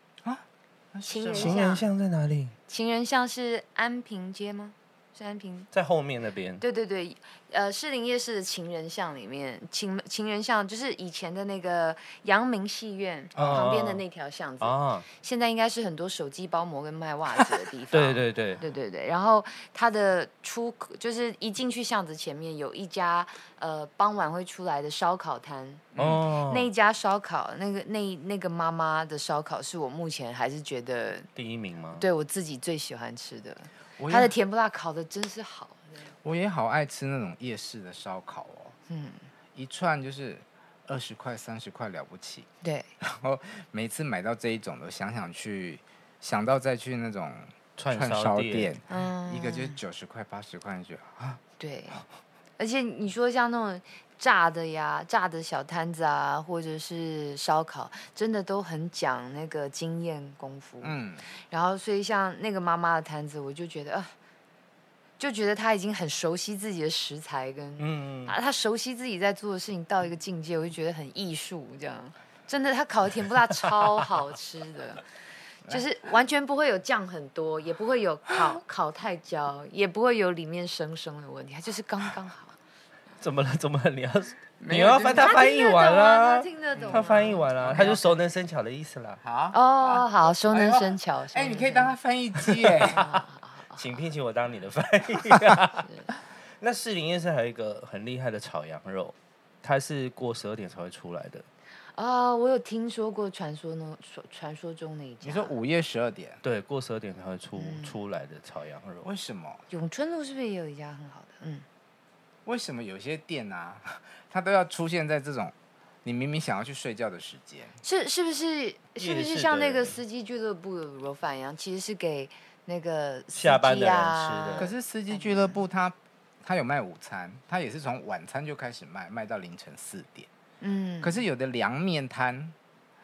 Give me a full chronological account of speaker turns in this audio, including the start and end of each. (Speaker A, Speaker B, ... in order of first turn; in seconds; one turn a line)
Speaker A: 0.2-1.6
Speaker B: 1.1-1.8
Speaker C: 1.3-2.5
Speaker B: 2.7-5.7
Speaker C: 5.7-6.6
Speaker B: 6.6-31.3
Speaker A: 13.3-13.7
Speaker C: 13.3-14.0
Speaker C: 14.6-15.1
Speaker C: 17.9-18.6
Speaker A: 25.9-26.2
Speaker C: 25.9-26.7
Speaker C: 31.4-32.1
Speaker B: 31.9-36.1
Speaker A: 34.0-34.3
Speaker A: 36.2-38.8
Speaker B: 38.9-39.3
Speaker A: 39.5-42.5
Speaker B: 42.6-42.9
Speaker A: 43.0-51.4
Speaker C: 47.8-48.7
Speaker B: 48.9-49.8
Speaker B: 51.6-52.0
Speaker B: 52.6-61.0
Speaker A: 60.8-61.2
Speaker B: 61.5-64.1
Speaker B: 65.2-75.0
Speaker C: 67.8-68.3
Speaker B: 75.7-82.5
Speaker C: 83.2-89.2
Speaker B: 84.6-88.0
Speaker A: 84.7-85.3
Speaker A: 86.8-88.0
Speaker A: 89.2-93.1
Speaker B: 89.5-92.0
Speaker B: 92.8-93.8
Speaker C: 93.8-95.9
Speaker C: 96.6-101.5
Speaker B: 101.9-105.5
Speaker A: 105.2-106.4
Speaker C: 106.4-109.1
Speaker B: 107.5-108.0
Speaker A: 109.0-109.6
Speaker B: 109.7-111.7
Speaker A: 112.5-117.7
Speaker B: 117.8-125.6
Speaker C: 119.0-120.0
Speaker C: 123.3-124.7
Speaker A: 124.6-130.3
Speaker B: 130.6-131.2
Speaker A: 131.0-132.5